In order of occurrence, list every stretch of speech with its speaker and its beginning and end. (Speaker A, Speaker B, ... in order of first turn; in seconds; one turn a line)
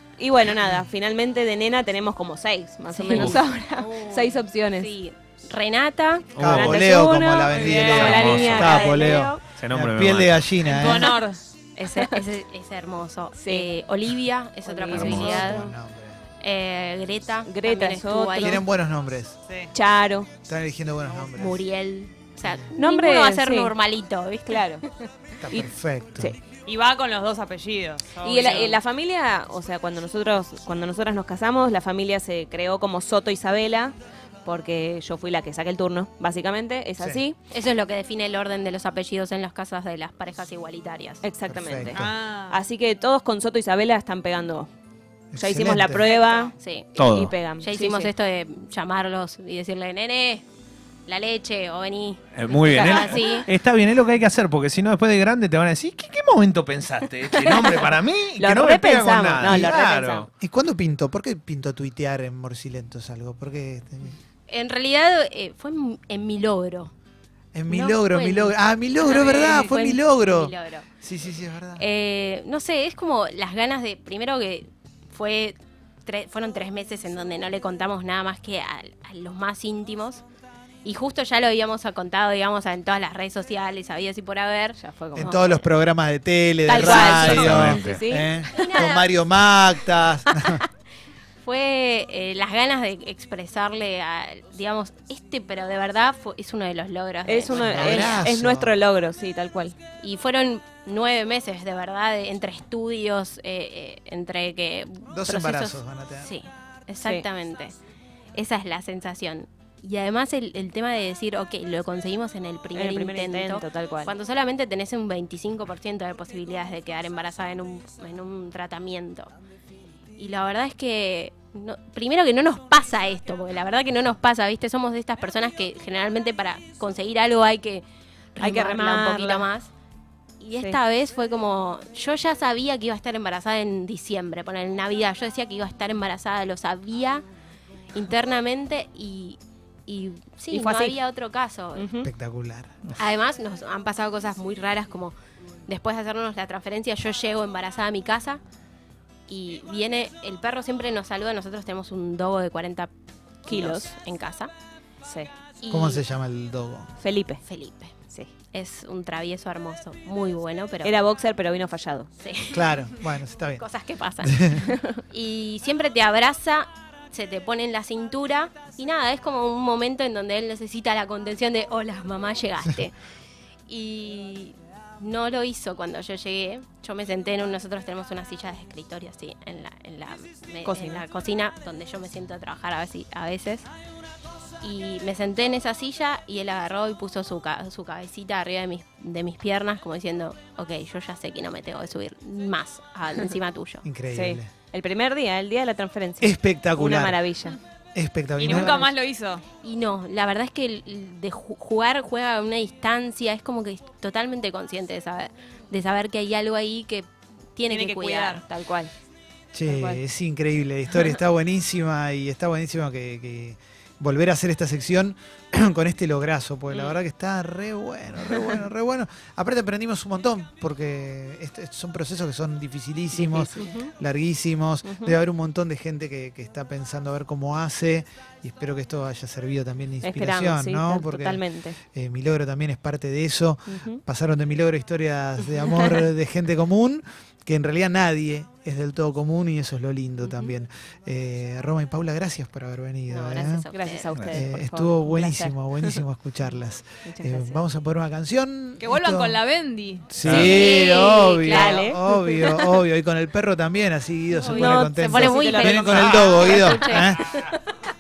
Speaker A: 0.2-4.9
Speaker B: 2.9-6.4
Speaker C: 6.4-6.8
Speaker D: 6.4-11.2
Speaker A: 6.5-9.4
Speaker E: 7.5-8.4
Speaker C: 8.0-8.9
Speaker B: 8.6-9.4
Speaker C: 9.5-10.4
Speaker E: 10.7-11.4
Speaker B: 11.8-15.8
Speaker A: 13.4-13.7
Speaker A: 14.7-15.4
Speaker C: 14.9-15.6
Speaker D: 15.0-16.2
Speaker B: 16.4-18.6
Speaker A: 17.4-18.6
Speaker D: 18.4-19.4
Speaker A: 19.7-20.3
Speaker D: 20.5-21.6
Speaker B: 21.4-24.9
Speaker D: 22.4-22.7
Speaker A: 22.8-23.7
Speaker A: 24.5-24.8
Speaker D: 25.4-26.4
Speaker E: 26.7-28.8
Speaker A: 28.2-37.4
Speaker B: 28.4-28.7
Speaker D: 37.0-37.2
Speaker B: 37.5-41.2
Speaker A: 41.2-44.7
Speaker D: 41.5-42.1
Speaker E: 41.9-42.6
Speaker D: 45.3-46.0
Speaker A: 45.4-46.5
Speaker E: 46.1-46.5
Speaker B: 46.5-46.9
Speaker C: 47.0-47.4
Speaker A: 47.1-48.1
Speaker B: 47.6-50.5
Speaker B: 51.1-53.5
Speaker C: 52.4-60.3
Speaker A: 52.7-53.2
Speaker A: 58.4-60.3
Speaker D: 59.4-59.7
Speaker D: 60.4-64.2
Speaker B: 64.5-66.9
Speaker D: 67.5-71.8
Speaker B: 67.7-70.9
Speaker B: 71.8-80.2
Speaker B: 80.8-85.4
Speaker A: 84.8-85.6
Speaker D: 85.2-90.7
Speaker A: 86.7-88.8
Speaker B: 86.8-87.0
Speaker C: 86.8-88.0
Speaker B: 88.5-89.1
Speaker B: 91.4-98.2
Speaker A: 97.2-99.8
Speaker D: 97.5-98.7
Speaker B: 100.0-107.8
Speaker D: 105.1-106.3
Speaker A: 107.0-107.3
Speaker B: 108.3-119.3
Speaker A: 112.7-114.1
Speaker B: 120.2-129.7
Speaker A: 128.4-129.5
Speaker B: 130.4-137.2
Speaker B: 137.9-141.9
Speaker A: 140.5-141.0
Speaker A: 141.8-142.1
Speaker D: 142.0-142.8
Speaker B: 143.0-145.1
Speaker B: 145.7-148.4
Speaker B: 149.3-152.9
Speaker B: 153.5-154.5
Speaker A: 153.5-153.9
Speaker A: 155.0-155.3
Speaker B: 155.6-156.0
Speaker D: 155.7-156.9
Speaker A: 157.0-157.4
Speaker B: 157.4-157.9
Speaker B: 158.5-160.9
Speaker A: 160.8-162.1
Speaker B: 162.2-162.9
Speaker D: 162.5-163.6
Speaker B: 163.6-172.9
Speaker D: 164.2-164.7
Speaker A: 164.6-165.0
Speaker B: 173.7-183.7
Speaker A: 180.6-181.0
Speaker B: 184.6-193.8
Speaker D: 193.8-194.5
Speaker A: 194.1-197.6
Speaker D: 196.2-197.2
Speaker D: 197.9-198.9
Speaker E: 198.4-199.4
Speaker A: 198.4-198.8
Speaker B: 199.6-208.4
Speaker A: 207.7-208.9
Speaker D: 209.5-243.7
Speaker A: 209.7-210.0
Speaker A: 216.7-217.0
Speaker A: 223.2-223.9
Speaker A: 224.9-225.2
Speaker A: 230.0-231.8
Speaker A: 233.7-234.0
Speaker A: 235.5-236.0
Speaker B: 243.1-244.1
Speaker A: 243.7-246.0
Speaker D: 244.3-249.4
Speaker A: 247.1-247.4
Speaker E: 248.8-250.1
Speaker D: 250.1-257.4
Speaker C: 250.2-250.6
Speaker B: 250.3-251.8
Speaker A: 250.3-250.9
Speaker A: 251.5-252.5
Speaker B: 254.4-257.6
Speaker A: 254.5-256.8